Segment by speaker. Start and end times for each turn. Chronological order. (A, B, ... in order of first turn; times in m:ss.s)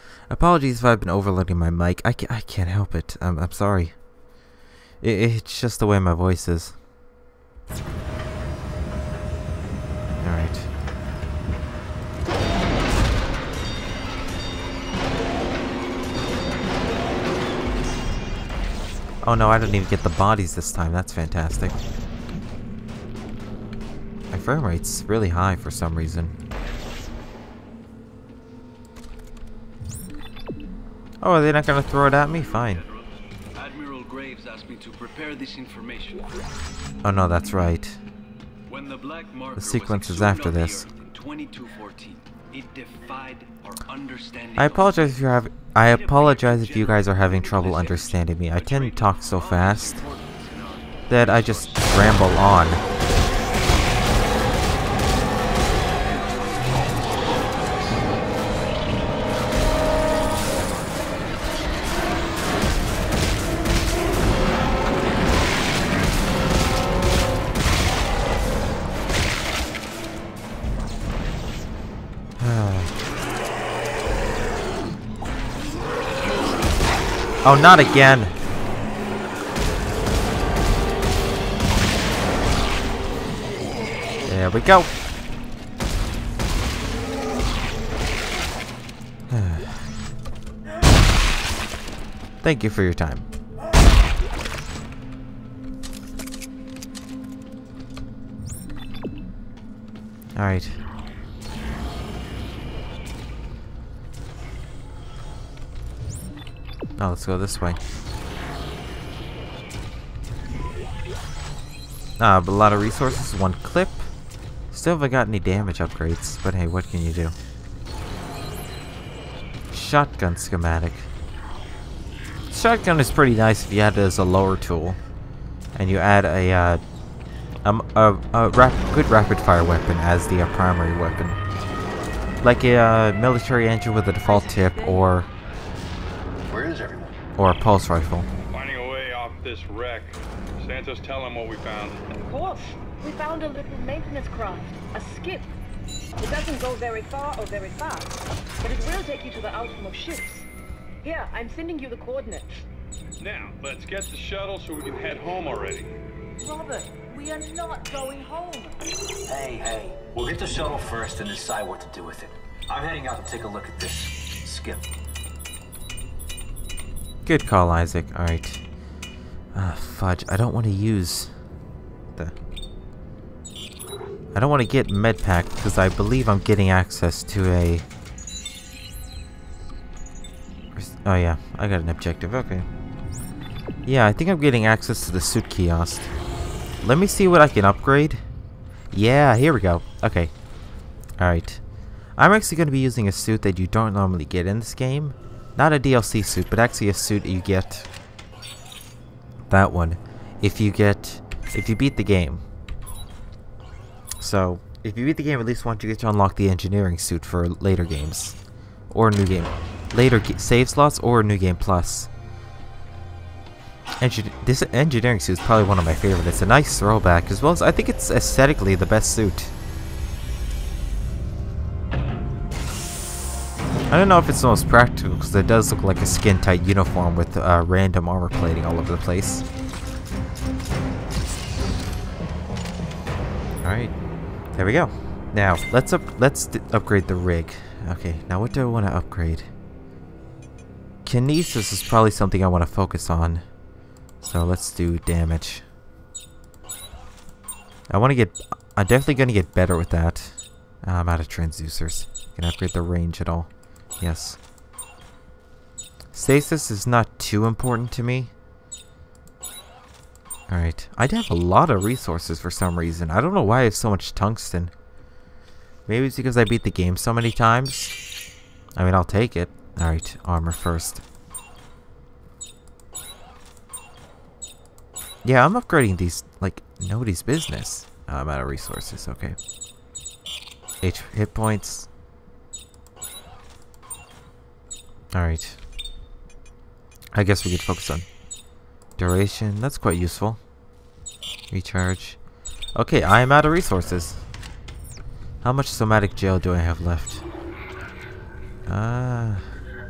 0:00.3-0:04.0 A
0:05.0-0:06.8 A
0:10.2-0:10.7 A
0:19.2-0:21.8 A
0:24.3-0:26.3 A
0:31.2-0:32.8 A
0:33.6-0:36.2 B
0:37.0-0:38.0 A
0:38.7-0:45.1 B
0:39.5-0:40.9 A
0:44.6-0:50.0 A
0:45.9-0:51.9 B
0:51.1-0:52.8 A
1:12.4-1:12.9 A
1:17.4-1:18.3 A
1:24.3-1:24.9 A
1:29.3-1:29.9 A
1:32.4-1:33.3 A
1:40.4-1:40.8 A
1:47.0-1:47.8 A
1:52.2-1:54.1 A
1:54.7-1:57.4 A
1:59.7-2:01.1 A
2:02.5-2:05.0 A
2:05.8-2:06.8 A
2:07.6-2:11.4 A
2:12.4-2:15.3 A
2:16.5-2:17.2 C
2:17.4-2:18.3 A
2:18.5-2:22.0 D
2:22.2-2:25.5 E
2:26.2-2:30.5 E
2:31.0-2:32.7 E
2:33.2-2:36.0 D
2:36.4-2:38.7 E
2:39.2-2:44.9 C
2:47.2-2:48.6 A
2:49.5-2:51.3 A
2:54.3-2:57.9 A
3:00.8-3:02.7 A
3:03.9-3:06.1 A
3:06.8-3:08.2 A
3:08.9-3:10.3 A
3:11.2-3:11.6 A
3:12.2-3:17.9 A
3:19.5-3:22.4 A
3:24.2-3:28.4 A
3:28.9-3:32.1 A
3:34.0-3:39.5 A
3:43.9-3:49.4 A
3:53.6-3:53.9 A
3:54.5-3:59.5 A
4:01.0-4:03.4 A
4:04.2-4:05.6 A
4:07.9-4:14.4 A
4:16.1-4:18.3 A
4:20.5-4:24.7 A
4:25.9-4:28.0 A
4:28.8-4:31.0 A
4:35.2-4:39.4 A
4:40.8-4:41.9 A
4:45.1-4:45.6 A
4:47.1-4:48.1 A
4:49.0-4:50.4 A
4:51.5-4:52.2 A
4:52.8-4:54.2 A
4:55.4-4:57.2 A
4:58.7-4:59.5 A